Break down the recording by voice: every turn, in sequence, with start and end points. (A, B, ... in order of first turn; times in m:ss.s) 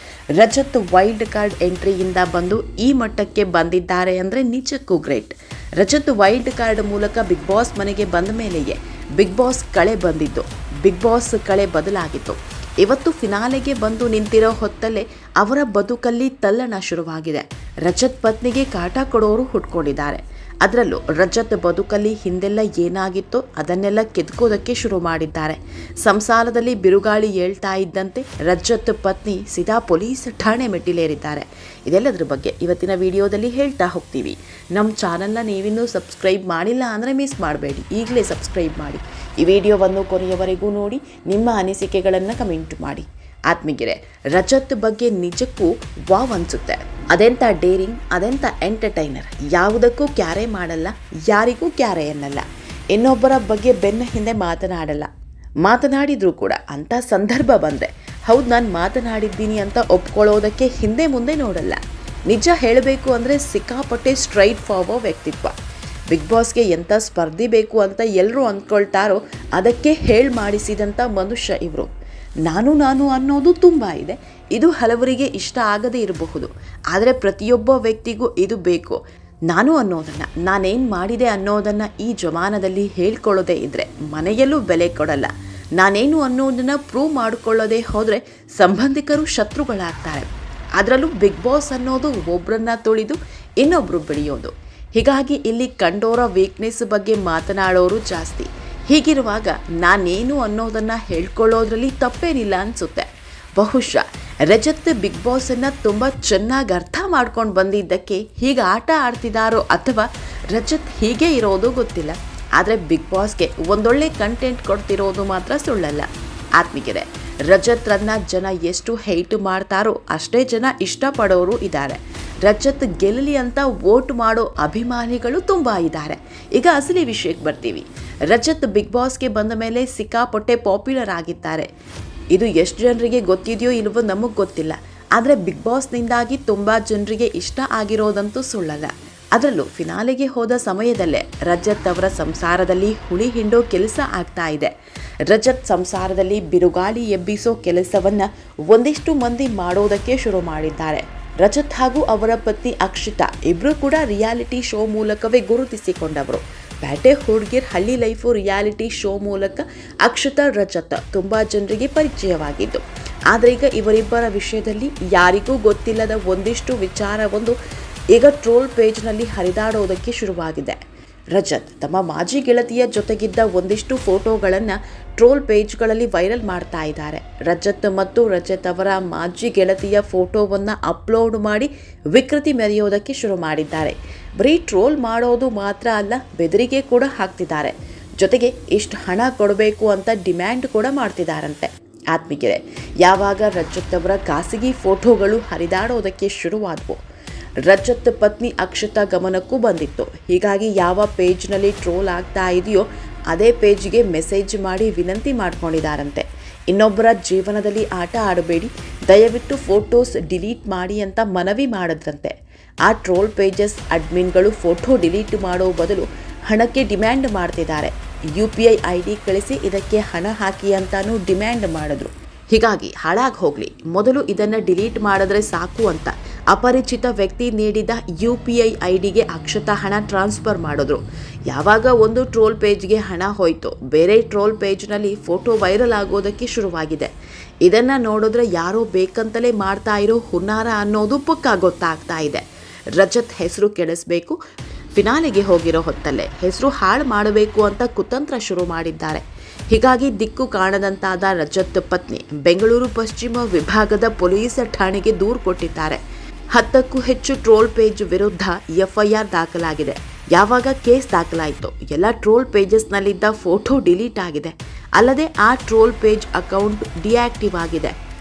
0:00.4-0:55.1 A
0:55.6-1:05.5 A
1:06.1-1:11.9 A
1:12.4-2:11.7 A
2:12.3-2:24.7 A
2:25.3-2:47.6 A
2:48.1-2:50.8 A
2:51.3-3:17.0 A
3:17.6-3:57.1 A
3:57.6-4:04.4 A
4:04.9-4:16.0 A
4:16.5-4:28.0 A